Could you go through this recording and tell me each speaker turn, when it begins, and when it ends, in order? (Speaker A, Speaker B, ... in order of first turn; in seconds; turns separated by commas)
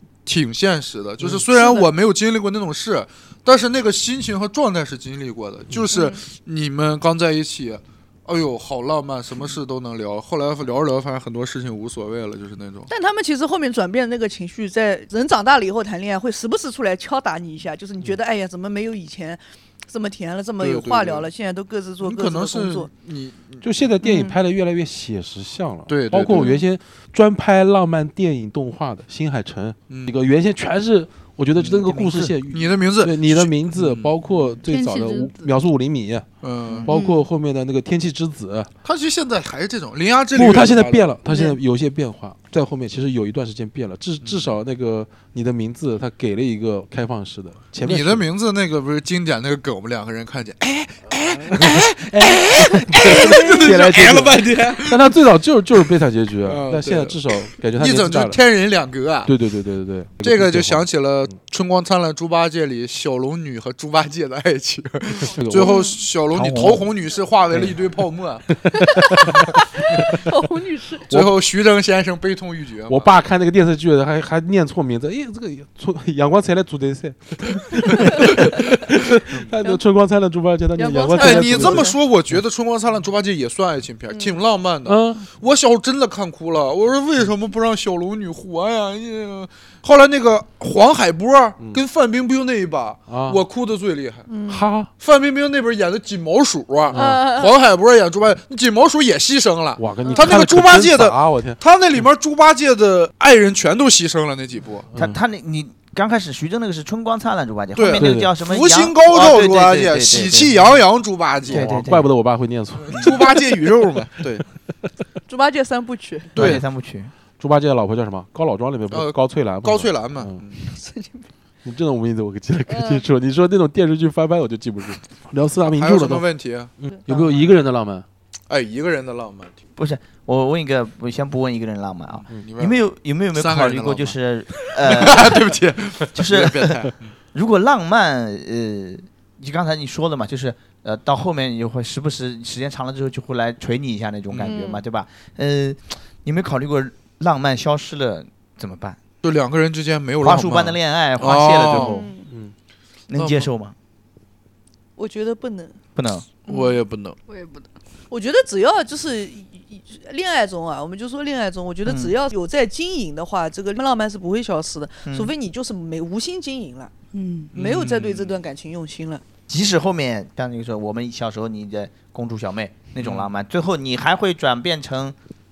Speaker A: 0.2-12.9, Speaker B: 1.5-1.9, Speaker B: 5.9-6.2, Speaker B: 12.9-22.9, Speaker A: 20.6-21.3, Speaker A: 22.0-23.7, Speaker C: 23.6-36.3, Speaker B: 24.0-24.4, Speaker A: 25.9-26.5, Speaker D: 26.4-26.6, Speaker A: 29.9-30.2, Speaker A: 31.6-34.1, Speaker D: 34.7-35.5, Speaker A: 36.4-36.9, Speaker D: 36.9-37.2, Speaker C: 36.9-38.7, Speaker A: 38.9-41.2, Speaker C: 40.3-48.3, Speaker D: 41.3-41.6, Speaker A: 44.2-44.6, Speaker A: 47.8-55.1, Speaker C: 51.5-58.4, Speaker A: 56.5-59.3, Speaker C: 59.2-61.3, Speaker A: 60.2-68.5, Speaker B: 65.0-66.0, Speaker C: 65.4-65.8, Speaker E: 66.3-66.9, Speaker C: 68.7-69.4, Speaker B: 68.9-71.1, Speaker A: 69.1-69.4, Speaker A: 71.1-73.1, Speaker C: 72.9-82.0, Speaker A: 78.3-78.5, Speaker B: 80.8-82.0, Speaker A: 81.2-94.3, Speaker C: 84.9-85.3, Speaker C: 93.1-93.4, Speaker B: 94.3-94.6, Speaker C: 94.5-94.9, Speaker A: 95.0-104.9, Speaker C: 96.9-97.2, Speaker B: 96.9-97.5, Speaker C: 99.8-101.6, Speaker B: 100.0-100.3, Speaker C: 104.9-105.2, Speaker E: 105.0-110.6, Speaker A: 107.8-111.8, Speaker C: 108.0-108.3, Speaker C: 111.5-113.4, Speaker E: 111.5-112.1, Speaker A: 112.9-114.5, Speaker B: 115.3-116.3, Speaker A: 116.3-116.6, Speaker E: 116.4-117.1, Speaker C: 117.4-120.4, Speaker A: 118.9-120.6, Speaker B: 120.6-121.3, Speaker C: 121.7-126.3, Speaker B: 122.7-123.0, Speaker A: 125.7-126.7, Speaker C: 126.8-128.1, Speaker A: 128.5-129.6, Speaker E: 129.8-135.5, Speaker A: 132.2-132.8, Speaker A: 133.3-137.2, Speaker E: 136.2-149.0, Speaker A: 144.3-144.6, Speaker B: 144.4-144.8, Speaker A: 149.2-152.0, Speaker E: 150.2-152.1, Speaker B: 151.7-152.3, Speaker C: 152.3-152.5, Speaker E: 153.1-153.8, Speaker A: 153.1-153.5, Speaker B: 155.0-155.8, Speaker E: 156.0-156.3, Speaker B: 156.5-156.7, Speaker A: 156.5-157.2, Speaker D: 157.3-157.7, Speaker B: 158.1-166.9, Speaker E: 161.9-162.1, Speaker E: 165.1-165.3, Speaker D: 167.1-167.5, Speaker B: 167.5-169.2, Speaker A: 167.5-168.3, Speaker E: 169.5-175.2, Speaker A: 173.0-173.3